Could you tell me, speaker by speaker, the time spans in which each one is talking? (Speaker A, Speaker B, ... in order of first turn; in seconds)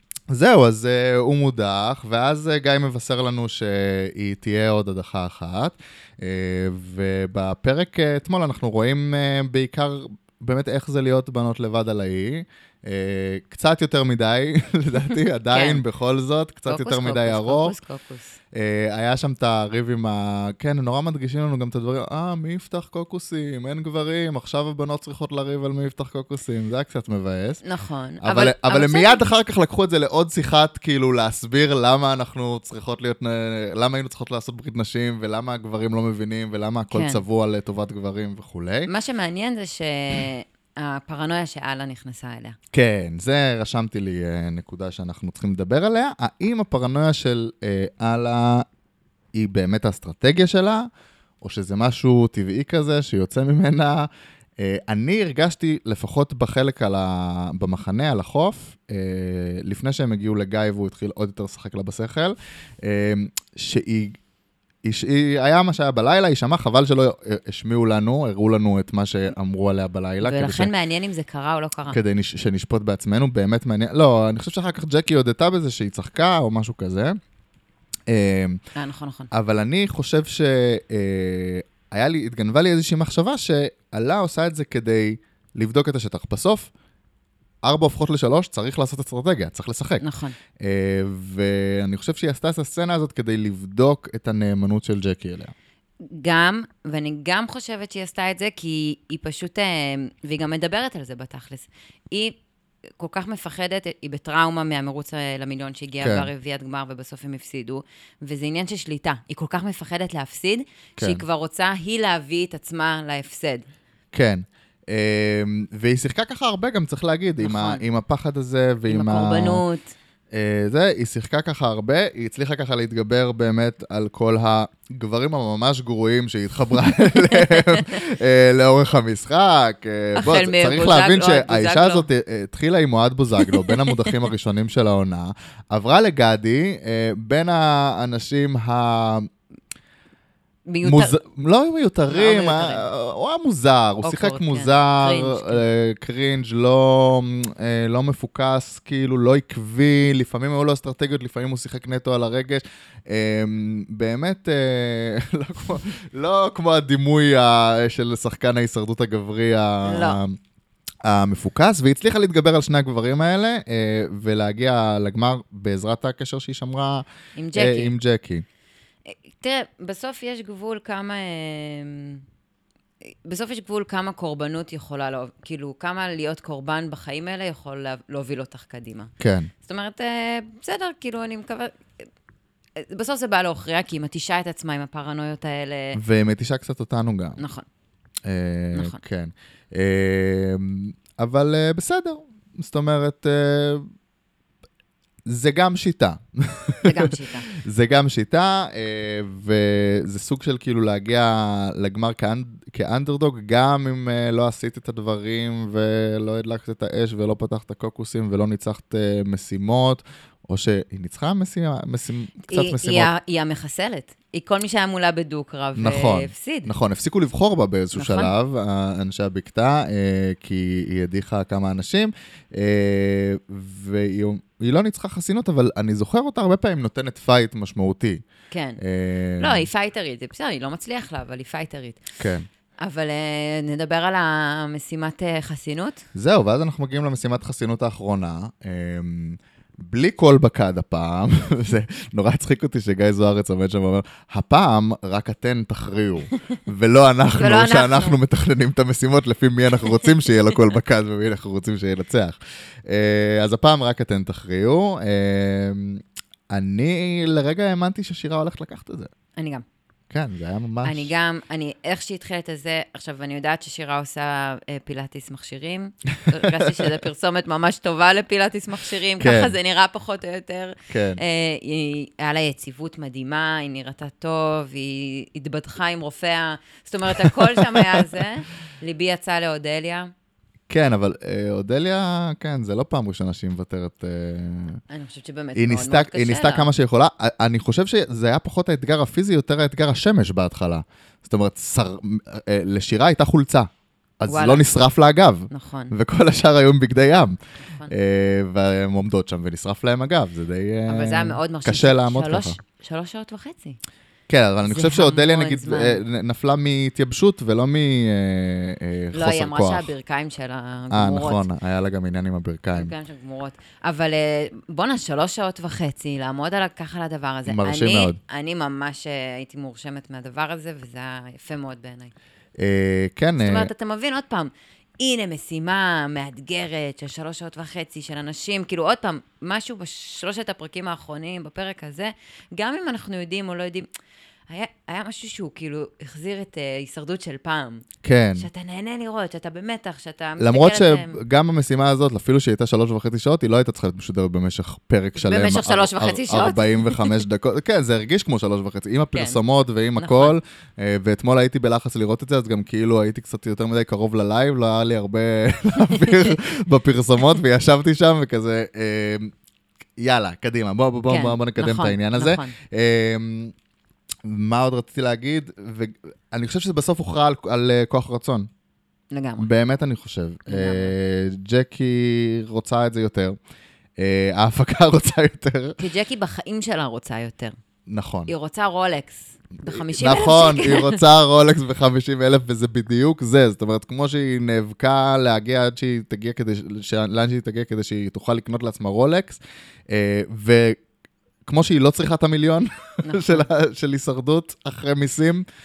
Speaker A: 0.3-17.8, 18.5-27.6, 28.2-38.9, 42.7-48.7, 49.3-50.9, 51.4-64.2, 64.8-70.7, 71.9-77.2, 78.1-78.6, 79.3-86.7, 87.6-90.0, 90.6-95.5, 106.0-106.3, 114.1-119.6, 120.3-139.3, 140.8-160.4, 161.0-168.4, 179.2-179.5, 185.9-187.4, 188.2-193.9, 195.3-213.1, 215.8-228.2, 228.8-229.7, 232.2-232.5, 236.1-259.1, 260.1-261.1, 269.2-269.6, 270.9-271.2, 277.1-278.1, 280.7-284.8, 285.6-302.6, 304.3-309.9, 310.9-312.9, 317.5-318.2, 322.6-323.7, 338.0-338.5, 340.4-359.3, 360.0-363.5, 364.2-368.5, 369.4-373.4, 374.0-375.8, 377.9-378.3, 379.7-390.8, 391.5-395.5
Speaker B: 15.5-15.8, 16.7-18.4, 27.6-29.2, 36.9-37.2, 38.9-42.6, 70.2-72.0, 78.8-79.3, 90.0-90.3, 96.1-102.4, 103.0-113.7, 117.4-117.8, 118.9-119.9, 127.3-127.9, 130.2-132.1, 133.6-134.2, 140.7-141.2, 142.1-142.8, 144.0-145.6, 159.8-160.2, 167.4-167.9, 169.1-172.2, 173.1-179.1, 179.6-182.1, 182.8-186.0, 187.4-187.7, 188.7-189.0, 196.8-197.5, 212.5-216.7, 217.9-218.3, 228.5-228.8, 229.4-232.0, 232.8-236.0, 247.3-248.2, 259.4-259.6, 260.8-280.1, 284.9-286.7, 294.3-294.6, 295.5-295.9, 297.6-297.9, 300.9-303.8, 304.7-306.0, 309.1-311.5, 312.8-322.1, 323.4-333.9, 334.5-341.2, 345.2-347.1, 349.1-349.4, 350.0-350.4, 361.1-362.6, 369.1-369.5, 370.5-370.9, 375.8-377.6, 378.3-381.0, 393.0-393.5